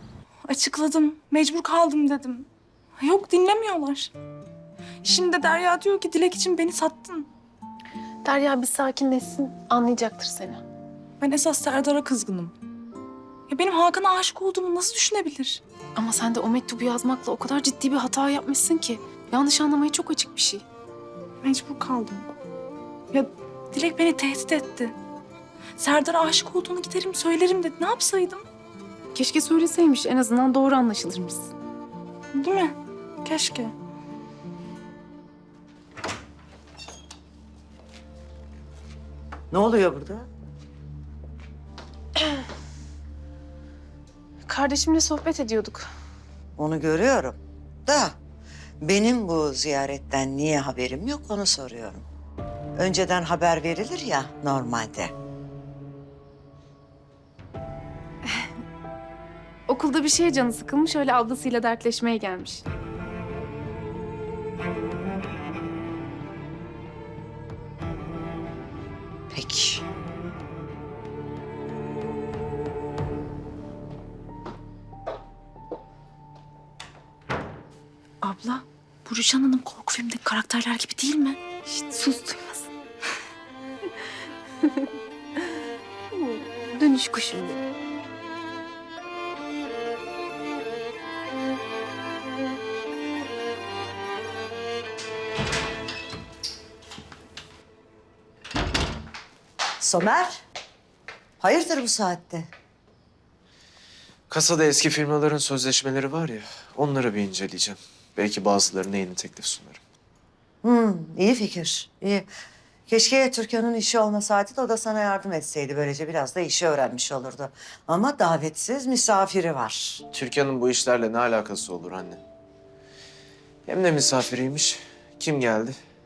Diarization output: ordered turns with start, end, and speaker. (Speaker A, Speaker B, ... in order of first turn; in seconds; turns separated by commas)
Speaker A: 0.5-2.5, Speaker A: 3.0-4.1, Speaker A: 5.0-7.3, Speaker B: 8.2-10.6, Speaker A: 11.2-12.5, Speaker A: 13.5-15.6, Speaker B: 16.0-20.6, Speaker A: 21.4-22.3, Speaker A: 23.1-24.9, Speaker A: 25.8-28.5, Speaker B: 29.1-31.5, Speaker A: 32.4-33.7, Speaker C: 39.5-40.3, Speaker B: 44.5-45.9, Speaker C: 46.6-48.2, Speaker C: 48.8-52.0, Speaker C: 52.8-55.1, Speaker B: 59.7-62.6, Speaker C: 69.3-69.8, Speaker A: 78.2-82.3, Speaker B: 81.7-82.7, Speaker B: 84.6-84.9, Speaker B: 86.1-87.6, Speaker C: 99.8-100.4, Speaker C: 101.4-102.5, Speaker D: 104.3-109.8, Speaker C: 110.6-112.3, Speaker C: 112.9-120.0, Speaker D: 120.1-122.2, Speaker D: 123.7-125.8